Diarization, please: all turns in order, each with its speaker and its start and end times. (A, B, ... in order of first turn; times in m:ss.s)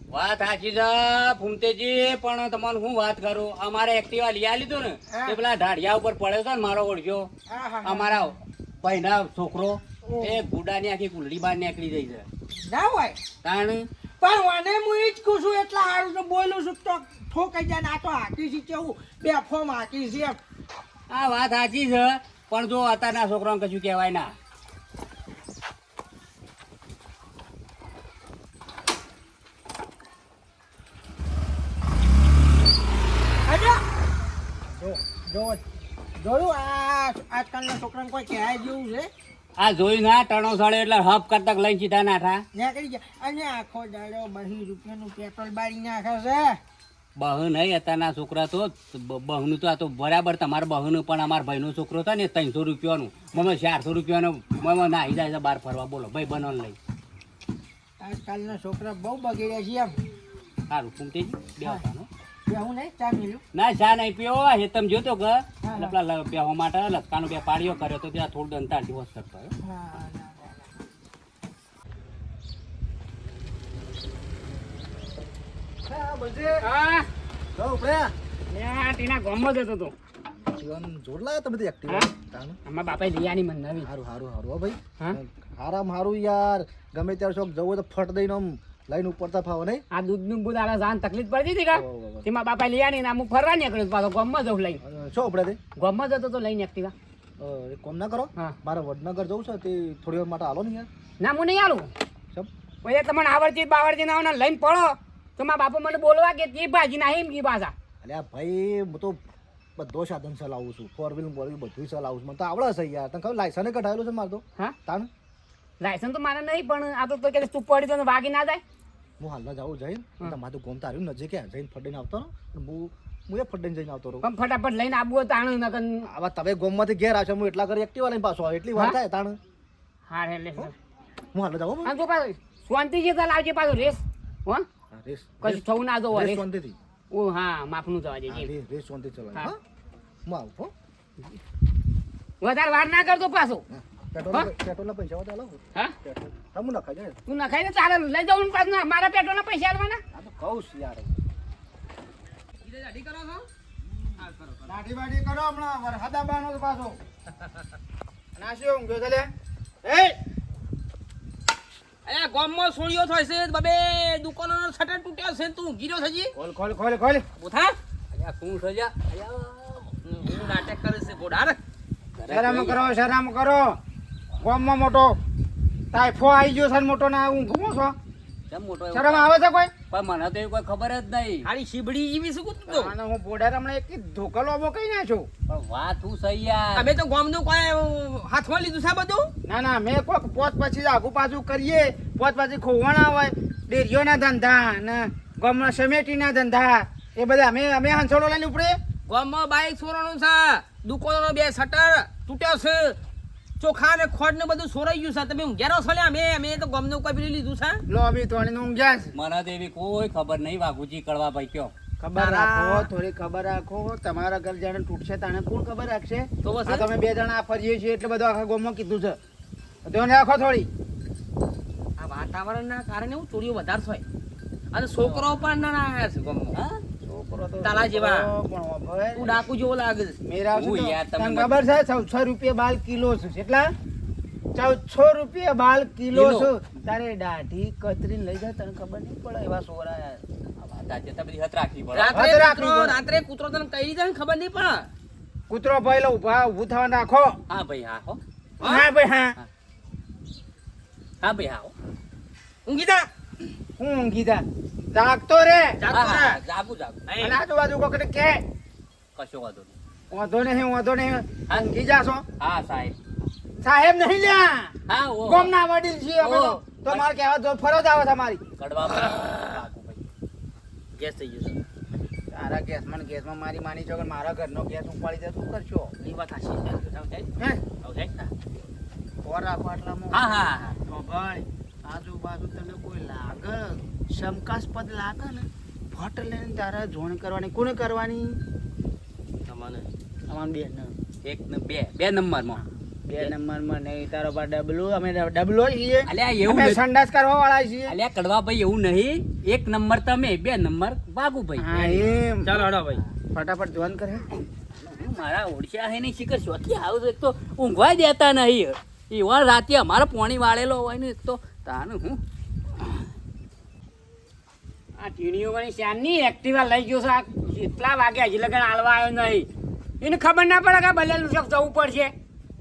0:00.1-0:07.3 A
0:05.1-0:05.4 B
0:07.5-0:08.2 B
0:07.8-0:12.3 A
0:10.1-0:10.4 B
0:12.6-0:13.2 B
0:13.4-0:13.8 A
0:14.2-0:20.4 B
0:21.1-0:24.3 A
0:33.5-0:33.8 B
0:36.2-0:39.1 B
0:39.6-0:42.4 A
0:42.5-0:46.6 B
0:47.2-0:56.8 A
0:58.0-1:00.0 B
1:00.7-1:02.1 A
1:02.5-1:03.4 B
1:03.5-1:09.5 A
1:05.6-1:05.9 B
1:09.6-1:10.6 B
1:15.9-1:16.6 C
1:16.6-1:17.1 D
1:17.6-1:18.1 C
1:18.5-1:19.9 D
1:20.4-1:22.6 C
1:22.6-1:23.9 D
1:23.8-1:29.8 C
1:29.9-1:34.8 D
1:31.7-1:32.3 C
1:34.8-1:35.6 C
1:35.8-1:36.9 D
1:37.4-1:40.9 C
1:41.2-1:41.9 D
1:42.8-1:47.7 D
1:48.0-1:49.2 C
1:49.8-1:55.1 C
1:55.8-1:58.6 D
1:59.2-2:04.3 C
2:04.2-2:06.1 D
2:06.0-2:09.4 C
2:10.1-2:10.7 D
2:11.3-2:11.9 C
2:11.8-2:14.7 D
2:14.9-2:16.8 C
2:15.4-2:16.4 D
2:17.1-2:18.5 D
2:18.3-2:19.6 C
2:20.3-2:20.7 C
2:22.4-2:23.6 D
2:23.7-2:27.2 C
2:27.3-2:30.0 D
2:30.1-2:31.1 C
2:32.6-2:33.5 E
2:34.2-2:34.7 E
2:34.6-2:37.0 F
2:38.4-2:39.3 F
2:39.8-2:40.2 F
2:42.1-2:46.3 E
2:46.3-2:47.2 F
2:47.4-2:47.8 E
2:48.1-2:49.9 A
2:50.1-2:51.6 E
2:52.2-2:52.8 A
2:52.3-2:53.8 F
2:54.4-2:55.2 F
2:55.9-2:58.0 F
2:58.5-2:59.3 A
2:58.9-2:59.7 F
2:59.9-3:01.5 A
3:01.4-3:02.9 E
3:02.7-3:05.3 F
3:05.5-3:06.9 A
3:06.7-3:09.3 E
3:09.4-3:18.8 F
3:19.1-3:23.0 E
3:23.6-3:27.8 E
3:27.9-3:29.1 F
3:29.1-3:31.7 A
3:32.0-3:39.2 F
3:32.2-3:32.9 E
3:36.4-3:36.9 E
3:39.8-3:40.7 F
3:42.0-3:44.0 E
3:44.7-3:46.6 E
3:45.0-3:45.2 A
3:47.0-3:49.4 F
3:47.6-3:48.3 E
3:49.2-3:50.2 E
3:50.2-3:53.7 F
3:50.5-3:51.5 A
3:54.6-4:00.2 F
3:56.2-3:56.4 A
4:00.6-4:02.3 A
4:01.9-4:04.9 E
4:02.1-4:03.0 F
4:05.5-4:07.4 F
4:07.5-4:08.2 A
4:08.6-4:08.9 E
4:08.6-4:09.4 F
4:11.2-4:11.7 A
4:12.7-4:13.1 E
4:13.8-4:16.4 F
4:15.8-4:16.2 E
4:15.9-4:17.0 A
4:17.1-4:17.4 E
4:17.2-4:18.4 F
4:19.2-4:19.7 A
4:20.1-4:22.2 F
4:21.5-4:21.7 A
4:22.4-4:23.0 A
4:23.6-4:28.4 F
4:24.9-4:25.6 A
4:26.2-4:27.1 A
4:28.6-4:30.0 A
4:29.0-4:29.4 E
4:31.0-4:31.6 E
4:32.3-4:35.9 F
4:36.0-4:37.3 E
4:37.4-4:37.6 F
4:37.8-4:38.3 E
4:39.2-4:48.4 F
4:40.1-4:40.8 A
4:49.5-4:49.9 E
4:50.3-4:50.9 F
4:51.2-4:52.6 A
4:52.6-4:58.0 F
4:56.1-4:56.8 A
4:57.9-5:02.0 A
5:01.6-5:02.6 F
5:01.8-5:03.0 E
5:03.3-5:04.3 F
5:04.8-5:12.2 A
5:15.0-5:19.5 D
5:20.0-5:22.1 D